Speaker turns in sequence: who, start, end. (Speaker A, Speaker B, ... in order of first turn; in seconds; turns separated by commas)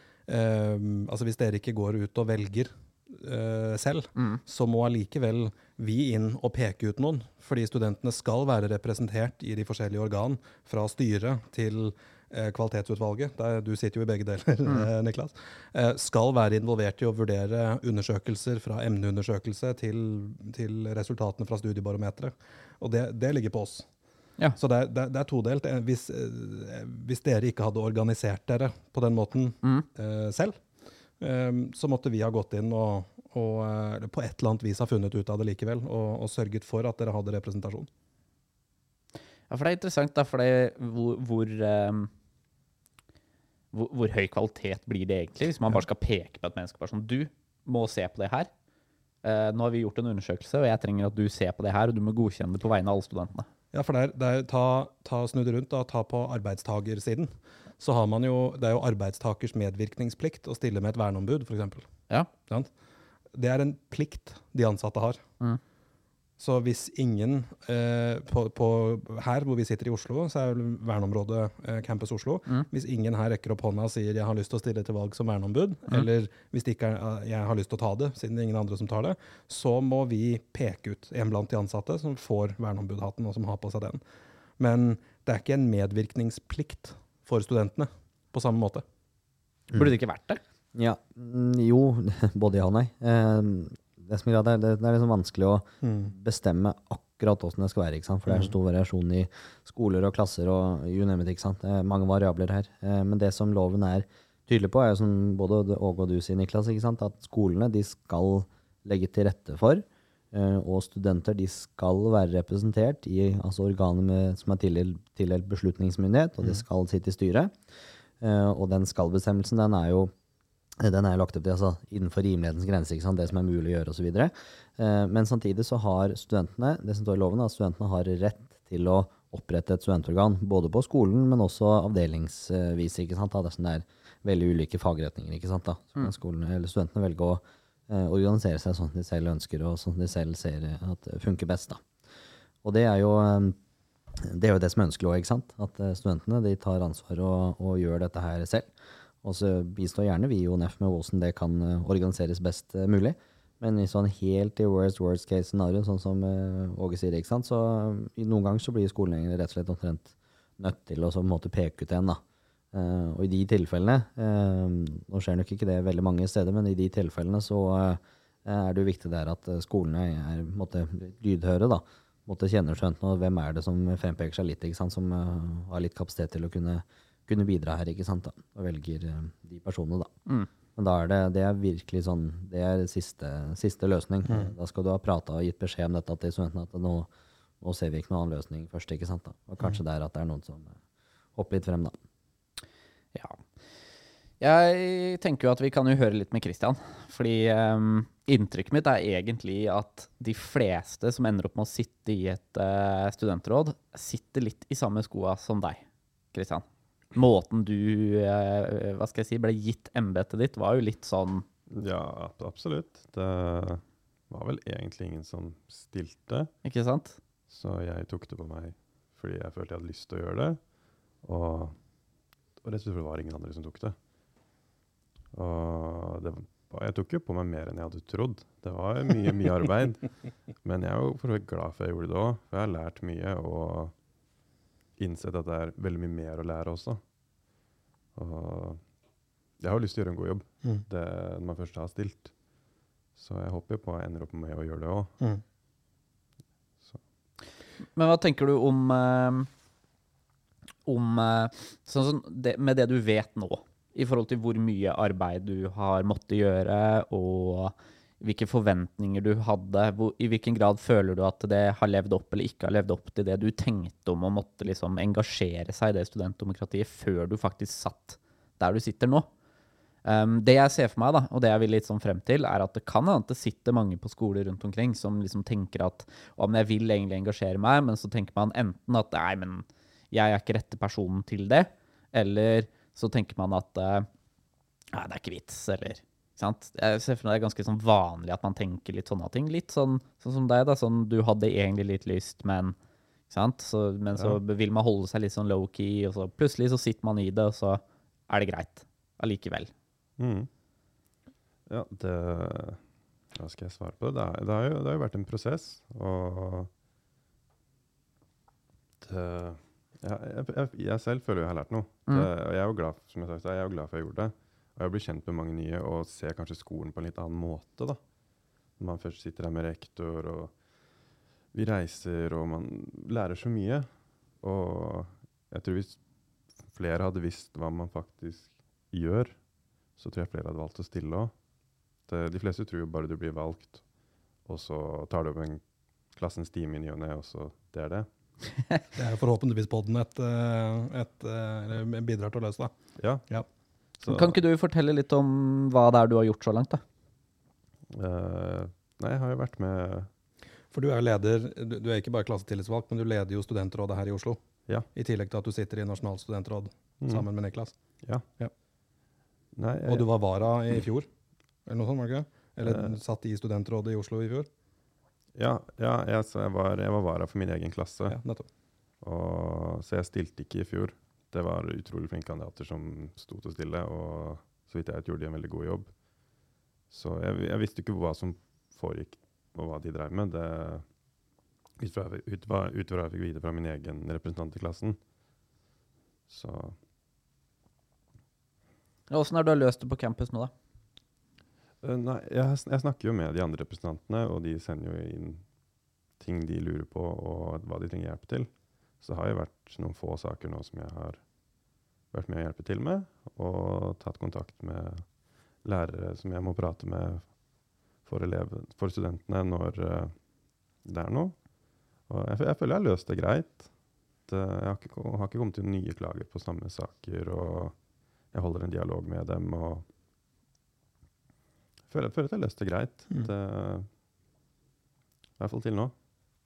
Speaker A: 0.3-23.9, Speaker B: 4.2-4.4, Speaker A: 24.6-30.6, Speaker A: 31.2-37.9, Speaker B: 39.5-42.1, Speaker B: 43.7-48.5, Speaker B: 49.2-53.5, Speaker A: 53.7-61.9, Speaker A: 62.4-62.7, Speaker A: 63.3-65.2, Speaker A: 66.4-84.0, Speaker A: 84.6-88.8, Speaker B: 89.7-90.4, Speaker C: 90.8-117.5, Speaker A: 95.8-96.1, Speaker C: 118.2-120.1, Speaker C: 120.8-141.8, Speaker C: 142.6-143.6, Speaker C: 144.2-148.7, Speaker C: 149.2-162.2, Speaker C: 162.7-180.1, Speaker C: 180.8-187.1, Speaker A: 184.3-184.5, Speaker C: 187.6-190.8, Speaker C: 191.4-191.9, Speaker B: 194.4-211.4, Speaker D: 211.7-216.5, Speaker B: 216.6-217.2, Speaker D: 217.5-221.8, Speaker D: 222.6-223.9, Speaker D: 225.3-234.0, Speaker D: 235.0-237.0, Speaker D: 238.2-238.9, Speaker D: 239.6-242.6, Speaker D: 243.1-245.1, Speaker B: 247.9-249.5, Speaker B: 250.8-269.3, Speaker B: 270.1-284.1, Speaker B: 284.9-292.8, Speaker B: 293.3-299.7, Speaker D: 300.2-300.5, Speaker D: 301.7-306.7, Speaker D: 309.0-318.1, Speaker D: 318.7-331.4, Speaker D: 332.0-338.4, Speaker A: 338.9-343.5, Speaker D: 343.0-344.4, Speaker B: 344.1-346.8, Speaker D: 347.9-350.1, Speaker A: 350.7-354.4, Speaker A: 354.9-358.5, Speaker D: 357.0-358.2, Speaker D: 359.5-360.1, Speaker A: 359.9-361.1, Speaker A: 361.6-364.5, Speaker D: 362.6-362.9, Speaker D: 365.4-368.2, Speaker A: 368.1-368.5, Speaker D: 369.0-380.9, Speaker D: 381.8-385.0, Speaker D: 386.3-386.8, Speaker B: 389.1-390.5, Speaker D: 391.8-395.6, Speaker D: 396.1-401.2, Speaker D: 402.1-407.4, Speaker D: 408.0-419.9, Speaker D: 421.9-423.9, Speaker D: 425.4-425.9